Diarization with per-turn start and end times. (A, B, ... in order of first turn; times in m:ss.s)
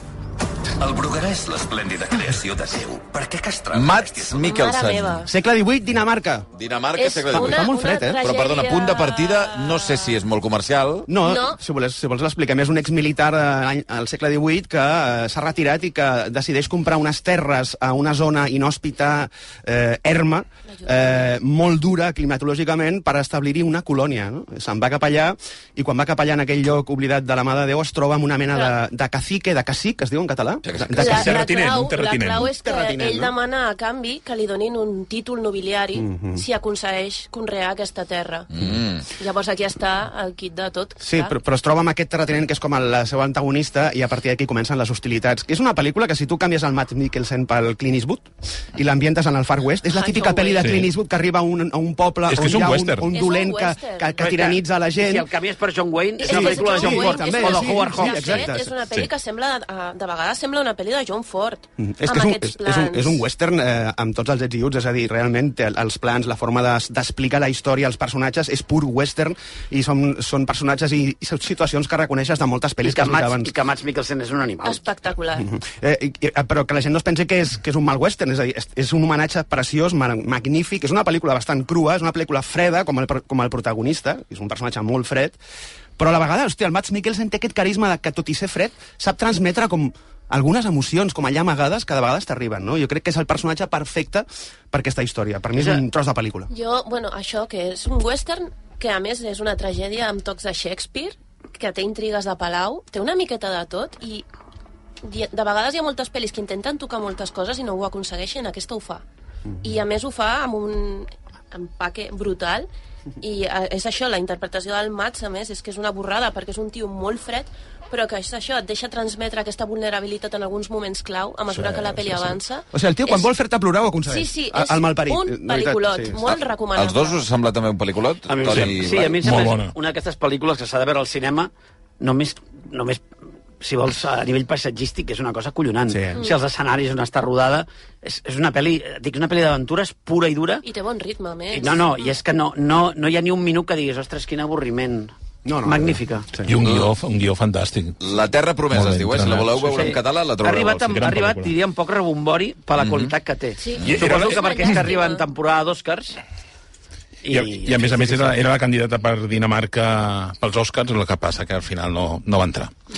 0:00.8-0:04.5 A
0:03.7-0:05.2 B
0:04.4-0:05.3 C
0:05.3-0:06.5 D
0:06.6-0:11.1 B
0:07.0-0:10.2 C
0:07.3-0:08.2 D
0:11.1-0:31.4 D
0:11.2-0:11.6 C
0:20.7-0:21.2 C
0:30.6-0:31.4 B
0:31.0-0:38.5 C
0:31.0-0:32.5 E
0:32.6-0:33.3 D
0:36.0-0:36.4 D
0:38.5-0:39.1 B
0:39.2-0:41.4 C
0:41.0-0:55.3 D
0:49.9-0:50.8 C
0:50.6-0:50.9 E
0:52.3-0:53.1 E
0:53.1-0:54.2 C
0:54.2-0:58.5 F
0:56.2-1:03.2 C
0:56.2-0:58.8 D
1:01.8-1:13.5 D
1:12.8-1:14.8 F
1:14.6-1:15.5 C
1:15.4-1:25.4 D
1:26.0-1:36.5 D
1:35.6-1:35.8 F
1:36.5-1:44.2 C
1:45.0-1:49.0 C
1:49.6-1:52.7 C
1:53.2-2:03.3 C
2:02.7-2:06.2 D
2:04.1-2:07.2 C
2:06.3-2:09.4 B
2:08.3-2:13.0 F
2:08.5-2:09.7 E
2:13.6-2:20.6 F
2:15.9-2:16.2 D
2:20.6-2:21.9 C
2:21.5-2:25.1 F
2:25.4-2:26.6 D
2:25.6-2:26.3 F
2:26.4-2:28.0 E
2:26.6-2:26.9 B
2:28.0-2:31.0 B
2:28.7-2:30.0 E
2:29.7-2:36.2 F
2:30.9-2:31.5 E
2:32.8-2:33.1 B
2:33.6-2:35.3 C
2:33.8-2:34.8 E
2:37.2-2:38.4 F
2:37.3-2:42.7 E